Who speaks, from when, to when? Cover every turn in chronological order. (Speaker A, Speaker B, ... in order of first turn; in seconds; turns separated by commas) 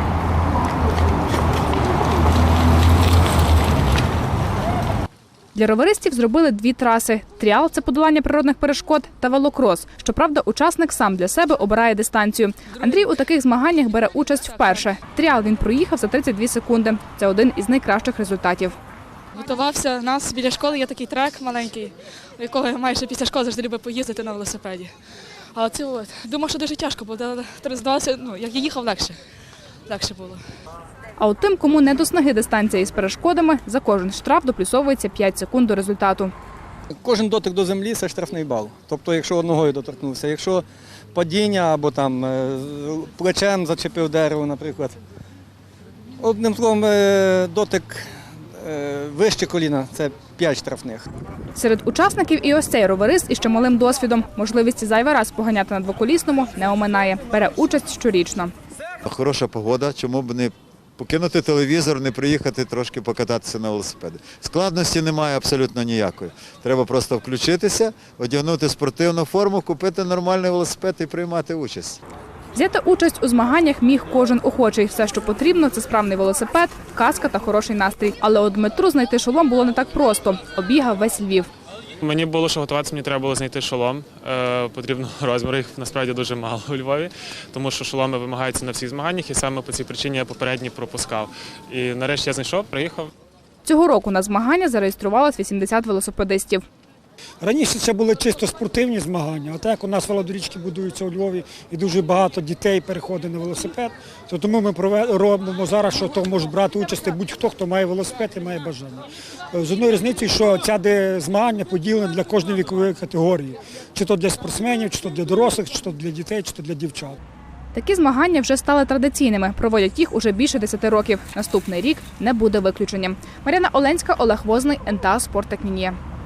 Speaker A: 5.5-18.8, Speaker B: 19.4-24.9, Speaker B: 25.6-29.2, Speaker B: 29.9-30.4, Speaker A: 31.2-36.3, Speaker C: 37.0-40.6, Speaker C: 41.1-45.0, Speaker C: 46.2-48.1, Speaker C: 48.6-51.1, Speaker A: 51.5-58.5, Speaker D: 59.1-72.0, Speaker A: 72.5-81.5, Speaker E: 82.0-93.1, Speaker A: 93.7-96.6, Speaker F: 97.4-109.0, Speaker F: 109.5-117.1, Speaker A: 117.7-126.0